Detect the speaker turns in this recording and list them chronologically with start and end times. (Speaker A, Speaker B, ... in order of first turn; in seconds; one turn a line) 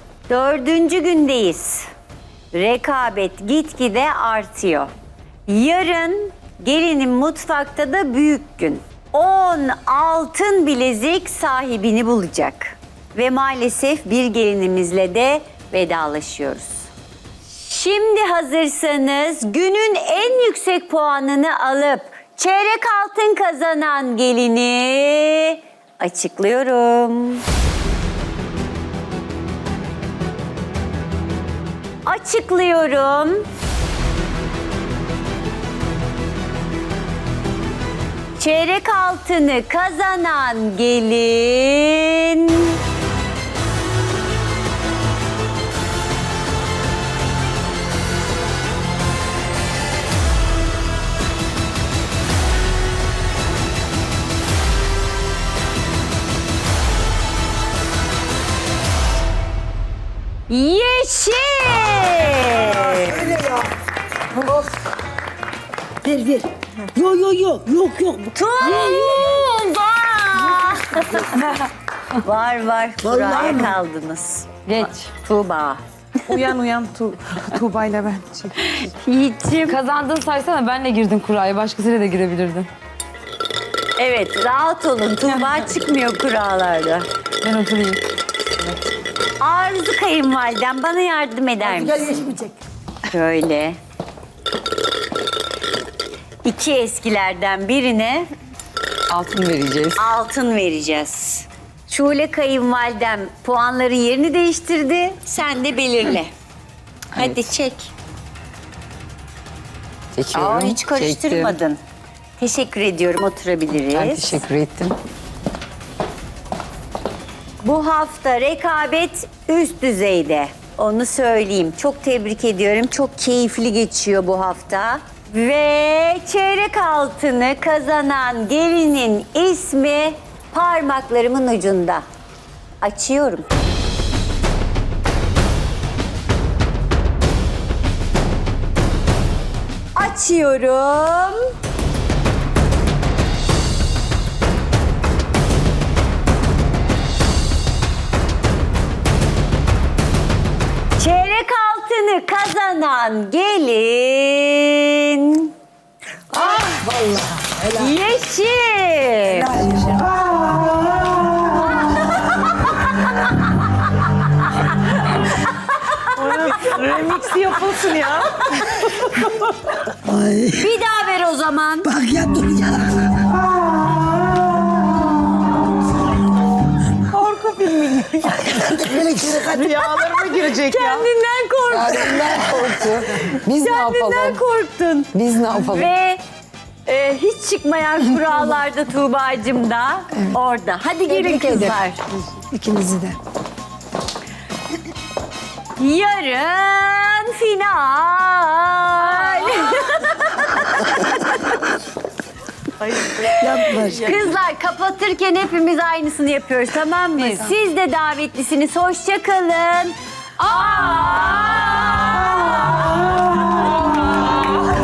Speaker A: 0.3-1.9
Speaker A: 2.5-4.9
Speaker A: 5.5-16.9
Speaker A: 17.6-27.4
Speaker A: 32.0-33.5
Speaker A: 38.4-42.8
Speaker A: 60.5-63.4
Speaker B: 63.0-63.6
Speaker B: 64.4-64.7
Speaker B: 66.0-69.3
Speaker A: 68.3-76.5
Speaker B: 73.0-73.7
Speaker C: 74.7-75.1
Speaker D: 76.3-78.5
Speaker A: 78.6-79.8
Speaker C: 79.7-82.7
Speaker A: 84.0-87.1
Speaker C: 87.4-88.0
Speaker A: 89.4-92.4
Speaker B: 91.8-92.5
Speaker A: 93.1-93.8
Speaker A: 96.5-98.3
Speaker C: 99.1-100.0
Speaker A: 100.0-106.3
Speaker A: 107.1-107.9
Speaker C: 107.2-107.4
Speaker C: 110.2-111.6
Speaker A: 110.3-111.8
Speaker A: 112.4-114.4
Speaker C: 113.9-115.0
Speaker A: 117.6-132.0
Speaker A: 132.8-133.5
Speaker A: 139.9-141.5
Speaker A: 151.0-155.5
Speaker A: 156.3-156.8
Speaker C: 156.6-157.3
Speaker B: 156.9-157.9
Speaker A: 157.7-159.7
Speaker B: 159.4-160.4
Speaker A: 161.6-162.7
Speaker A: 165.7-166.6
Speaker D: 166.2-169.5
Speaker B: 170.0-170.7
Speaker A: 170.6-172.0
Speaker B: 171.9-173.3
Speaker D: 177.1-178.6
Speaker B: 178.5-179.8
Speaker D: 179.3-181.1
Speaker A: 179.6-186.2
Speaker C: 181.7-184.4
Speaker C: 185.1-185.9
Speaker A: 186.9-192.0
Speaker C: 191.1-191.7
Speaker C: 192.3-193.2
Speaker A: 195.8-201.7
Speaker A: 203.1-213.3
Speaker B: 203.3-204.2
Speaker C: 207.2-207.5